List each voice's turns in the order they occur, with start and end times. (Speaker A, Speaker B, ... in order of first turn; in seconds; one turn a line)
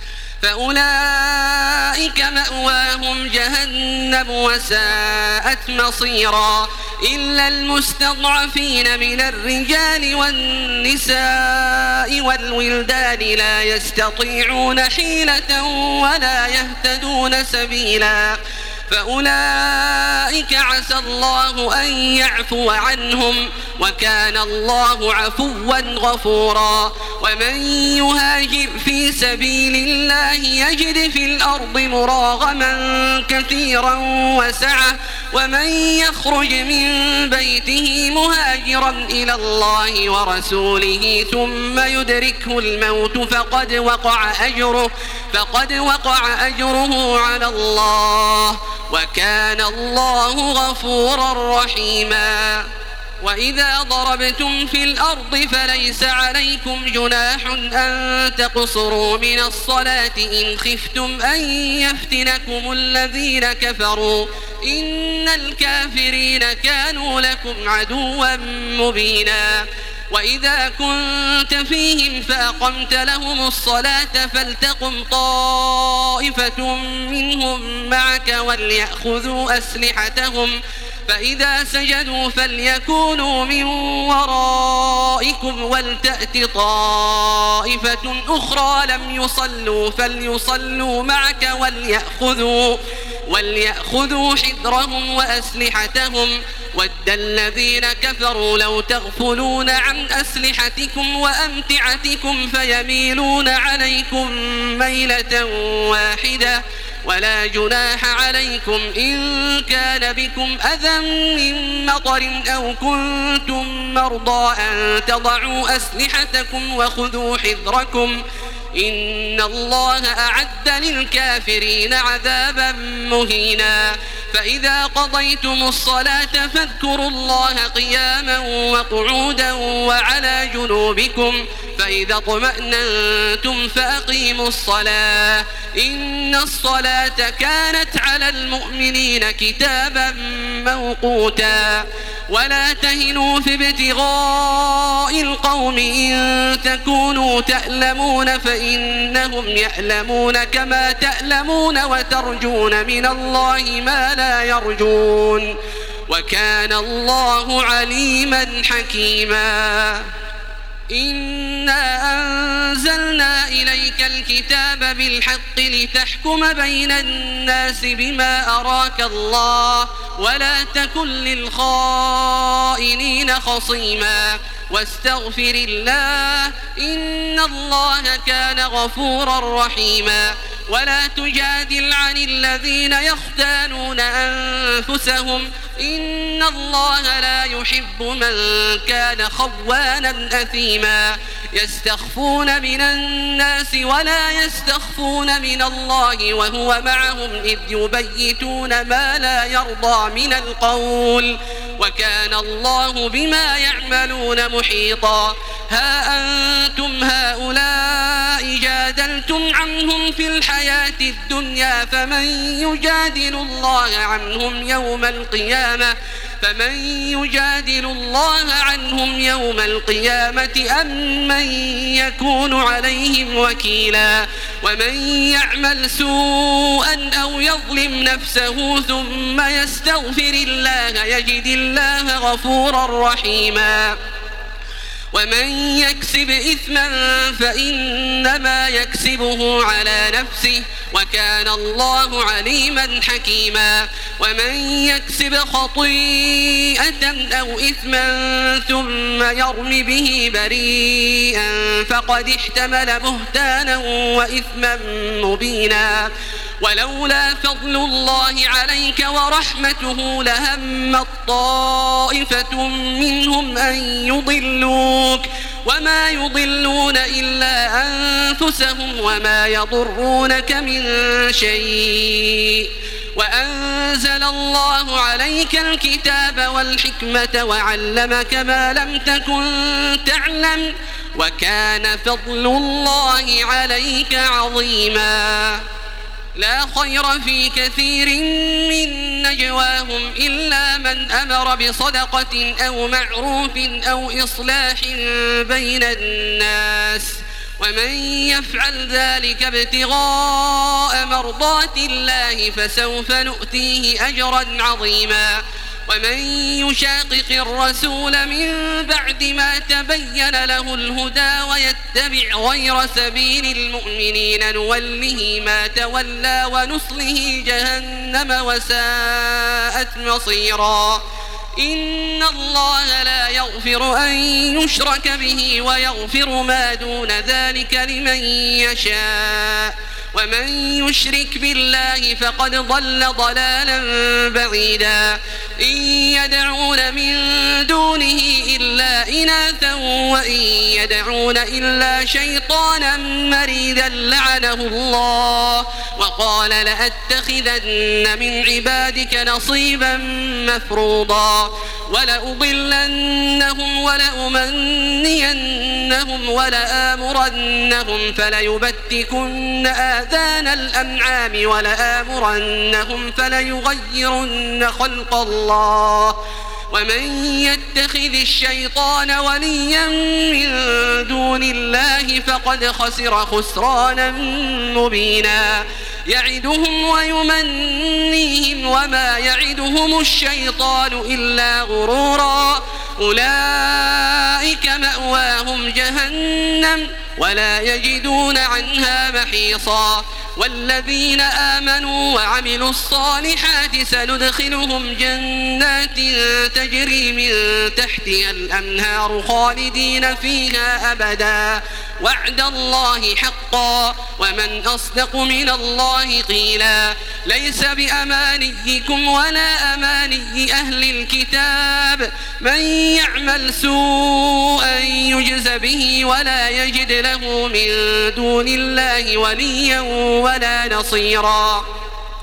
Speaker A: 0.4-18.4
Speaker A: 18.9-52.6
Speaker A: 53.2-80.6
Speaker A: 81.1-118.2
Speaker A: 118.8-155.6
Speaker A: 156.1-160.1
Speaker A: 160.9-234.0
Speaker A: 235.1-256.1
Speaker A: 256.6-285.6
Speaker A: 286.4-321.0
Speaker A: 321.6-366.2
Speaker A: 366.7-421.6